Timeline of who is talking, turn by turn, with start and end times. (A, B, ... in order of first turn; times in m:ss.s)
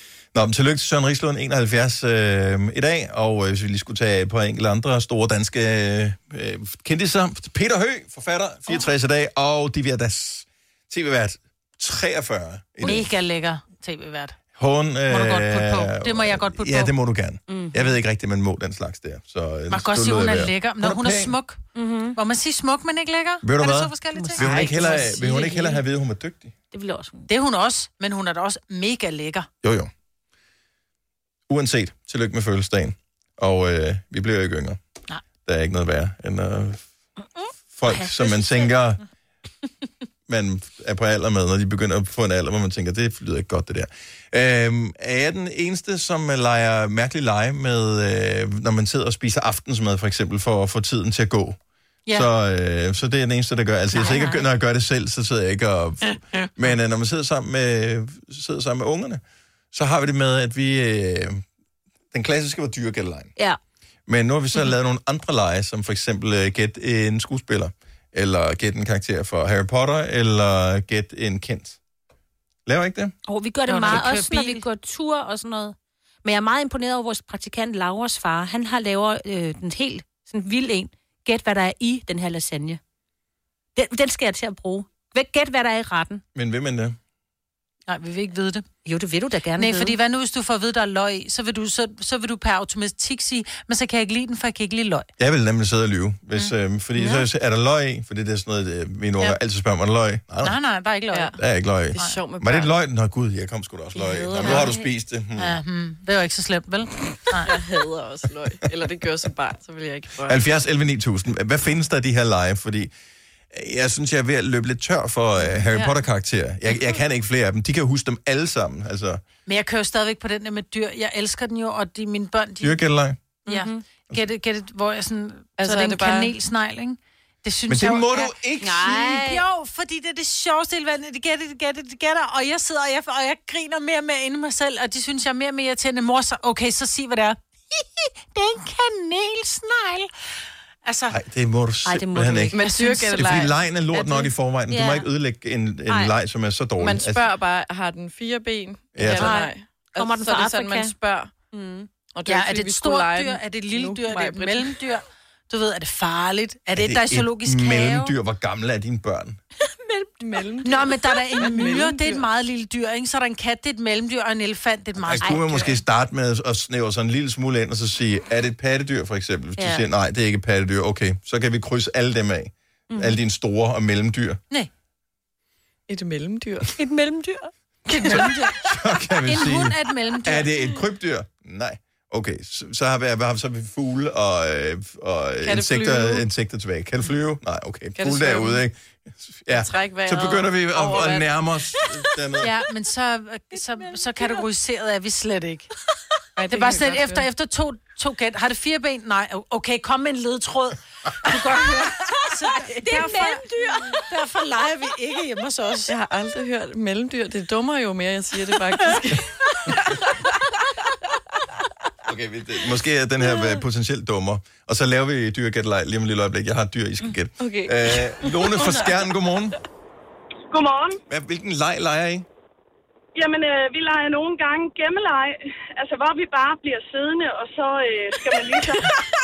0:00.3-0:13.1 A
0:12.8-0:14.4 B
0:14.6-0:21.4 A
0:15.1-0:16.9 B
0:17.5-0:18.0 C
0:19.7-0:21.6 B
0:21.7-0:22.2 C
0:22.1-0:25.0 B
0:23.4-0:26.5 A
0:24.1-0:25.8 C
0:26.7-0:27.3 C
0:27.3-0:29.5 B
0:29.6-0:29.9 A
0:31.5-0:34.8 A
0:35.4-0:36.8 A
0:37.4-0:38.7 C
0:37.8-0:39.0 A
0:40.3-0:51.6 A
0:52.1-1:01.4 A
0:53.9-0:54.4 C
1:02.1-1:03.3 A
1:04.1-1:11.8 A
1:12.7-1:13.1 A
1:13.3-1:22.8 C
1:13.7-1:14.7 B
1:23.8-1:26.2 C
1:26.4-1:27.0 A
1:27.9-1:28.7 B
1:28.8-1:30.0 C
1:29.6-1:35.1 B
1:35.2-1:40.6 A
1:37.0-1:37.3 C
1:40.4-1:41.3 B
1:41.1-1:41.4 D
1:41.4-1:45.6 A
1:41.9-1:42.7 D
1:42.0-1:42.2 B
1:44.0-1:44.9 C
1:45.4-1:47.5 B
1:47.4-1:50.4 D
1:50.3-1:52.9 A
1:53.5-1:59.2 A
1:55.7-1:56.0 D
1:59.4-2:02.8 B
2:02.6-2:03.2 A
2:03.4-2:20.1 B
2:03.5-2:03.8 C
2:05.6-2:06.3 D
2:07.7-2:09.0 A
2:08.6-2:09.4 C
2:20.8-2:21.2 B
2:21.1-2:22.5 A
2:21.8-2:22.6 C
2:22.5-2:23.5 D
2:22.6-2:23.5 B
2:23.2-2:27.3 A
2:23.9-2:25.1 C
2:25.9-2:26.1 C
2:26.8-2:31.3 D
2:29.0-2:29.4 A
2:29.0-2:30.9 C
2:31.5-2:31.9 C
2:32.1-2:34.8 D
2:32.3-2:38.1 B
2:36.7-2:39.4 A
2:39.6-2:40.4 C
2:40.2-2:42.2 D
2:40.6-2:45.7 B
2:45.0-2:54.4 A
2:45.2-2:45.7 C
2:49.6-2:49.8 C
2:52.9-2:53.2 C
2:55.9-2:56.7 D
2:56.8-2:57.5 C
2:57.9-2:58.4 B
2:58.1-3:12.6 A
2:59.2-3:00.5 B
3:05.4-3:06.2 D
3:08.0-3:08.6 D
3:09.5-3:11.3 D
3:12.4-3:15.7 B
3:13.6-3:14.3 C
3:16.4-3:17.3 D
3:16.5-3:25.9 B
3:22.1-3:24.0 C
3:25.9-3:29.2 D
3:32.1-3:39.6 A
3:37.4-3:38.3 D
3:38.6-3:38.9 C
3:40.5-3:41.0 E
3:41.1-3:42.3 A
3:43.1-3:49.0 E